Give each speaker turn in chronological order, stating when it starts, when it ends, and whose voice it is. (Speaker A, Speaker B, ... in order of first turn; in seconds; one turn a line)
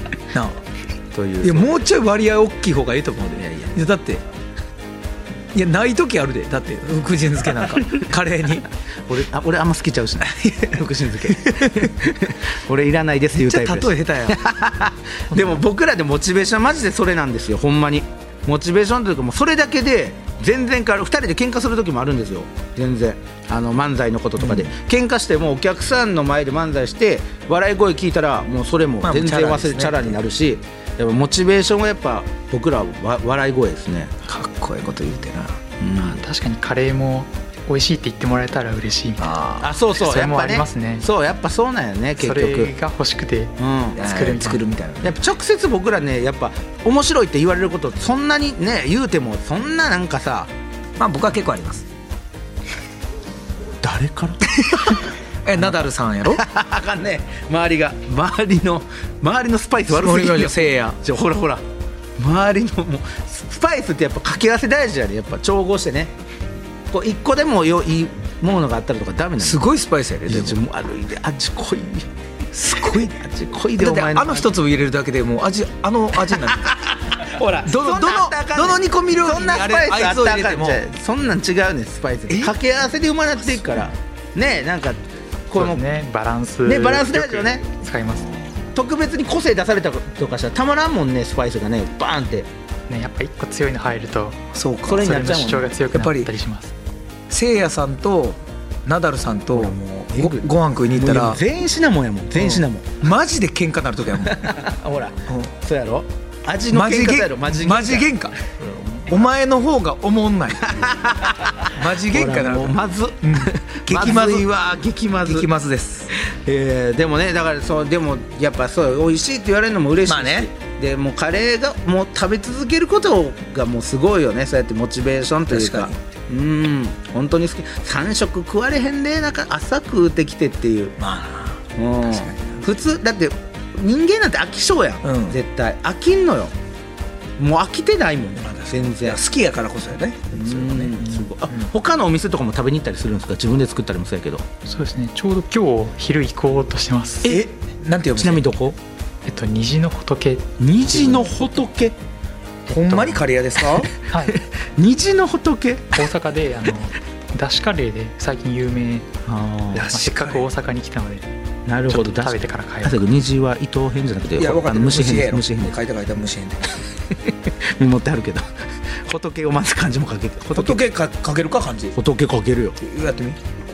Speaker A: 0.3-0.6
Speaker B: 1.1-1.8
Speaker A: 1.4-4.2
Speaker B: 3.4-3.8
Speaker A: 5.5-8.7
Speaker B: 9.1-34.1
Speaker A: 10.2-11.9
Speaker A: 13.4-14.4
Speaker A: 24.4-24.7
Speaker A: 29.0-30.2
Speaker A: 34.2-35.6
Speaker B: 35.8-36.2
Speaker C: 36.0-39.3
Speaker A: 39.2-39.7
Speaker B: 39.6-42.7
Speaker C: 40.0-41.1
Speaker C: 42.2-44.6
Speaker B: 43.6-44.1
Speaker A: 44.0-45.2
Speaker B: 45.0-50.5
Speaker A: 51.0-51.9
Speaker B: 53.8-55.0
Speaker A: 54.5-56.4
Speaker B: 56.3-61.6
Speaker A: 59.9-61.0
Speaker B: 62.2-66.2
Speaker B: 66.9-69.7
Speaker A: 69.4-70.6
Speaker B: 70.3-72.1
Speaker A: 72.5-73.2
Speaker B: 72.6-74.5
Speaker A: 73.8-80.8
Speaker B: 76.6-85.8
Speaker A: 82.3-82.5
Speaker A: 83.5-83.9
Speaker C: 85.5-88.4
Speaker B: 86.7-87.6
Speaker B: 88.7-92.5
Speaker C: 92.9-94.4
Speaker A: 94.5-96.3
Speaker B: 94.8-95.7
Speaker C: 95.0-96.7
Speaker A: 97.3-101.4
Speaker B: 99.5-103.1
Speaker A: 102.4-104.6
Speaker B: 104.2-109.1
Speaker A: 106.7-108.4
Speaker A: 109.1-111.0
Speaker B: 110.7-115.5
Speaker A: 111.6-114.5
Speaker A: 115.2-116.1
Speaker B: 116.1-131.0
Speaker A: 120.1-120.5
Speaker A: 125.5-126.0
Speaker A: 131.0-132.7
Speaker B: 131.8-136.5
Speaker A: 135.0-135.4
Speaker B: 137.4-139.2
Speaker A: 138.4-141.7
Speaker B: 140.3-144.4
Speaker C: 144.7-147.4
Speaker A: 147.2-148.5
Speaker B: 148.2-148.8
Speaker C: 149.2-151.5
Speaker B: 150.6-152.0
Speaker A: 152.7-153.9
Speaker C: 154.1-154.4
Speaker B: 154.2-156.1
Speaker C: 155.9-159.1
Speaker B: 159.2-159.9
Speaker C: 159.7-161.3
Speaker A: 159.7-160.5
Speaker B: 161.7-165.8
Speaker C: 161.9-163.1
Speaker A: 164.4-166.7
Speaker B: 167.1-170.9
Speaker A: 170.5-172.0
Speaker B: 171.9-172.8
Speaker A: 172.8-173.4